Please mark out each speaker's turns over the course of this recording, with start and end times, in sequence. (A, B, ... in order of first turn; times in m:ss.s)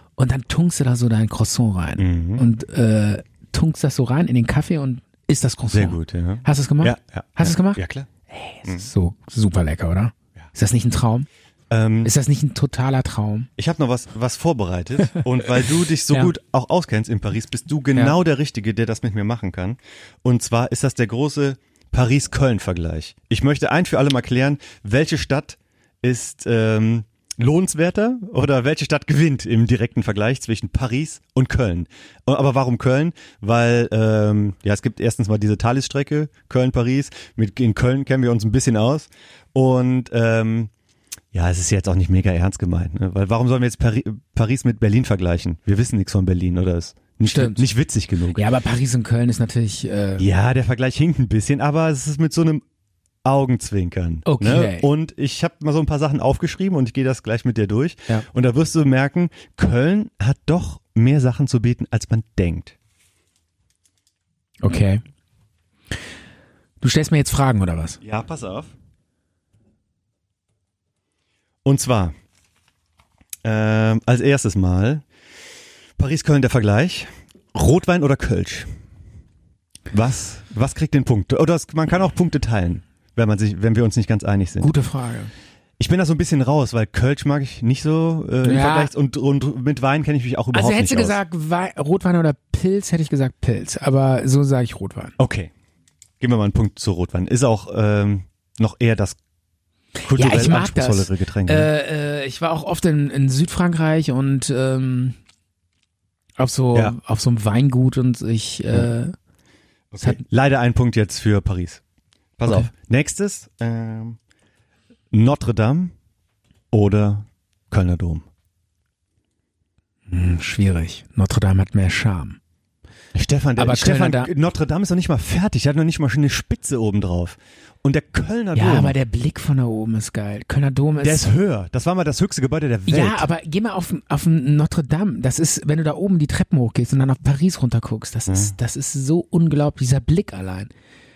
0:00.2-0:11.3 A
0:02.0-0:02.4 B
0:05.7-0:08.1 B
0:11.7-0:12.1 B
0:12.0-0:13.5 A
0:13.6-0:40.7 B
0:41.3-0:48.4 B
0:47.3-0:47.6 A
0:48.3-0:50.2 A
0:50.2-0:52.6 B
0:53.2-1:02.8 B
0:54.2-0:54.9 A
1:04.6-1:05.0 A
1:06.8-1:08.0 A
1:08.0-1:08.7 B
1:11.6-1:12.1 B
1:13.4-1:15.0 B
1:16.0-1:18.7 B
1:19.9-1:24.7 B
1:24.6-1:25.3 A
1:25.8-1:31.2 B
1:28.4-1:28.9 A
1:30.5-1:35.1 A
1:35.2-1:35.5 B
1:36.2-1:39.2 B
1:40.0-1:41.7 B
1:40.1-1:45.2 A
1:46.4-1:49.1 A
1:49.9-1:51.8 B
1:52.4-1:54.2 B
1:55.1-1:55.9 B
1:56.7-1:58.2 B
2:00.1-2:02.4 A
2:03.1-2:09.0 B
2:03.6-2:04.3 A
2:08.5-2:11.3 A
2:11.0-2:13.3 B
2:12.9-2:20.7 A
2:18.3-2:18.5 B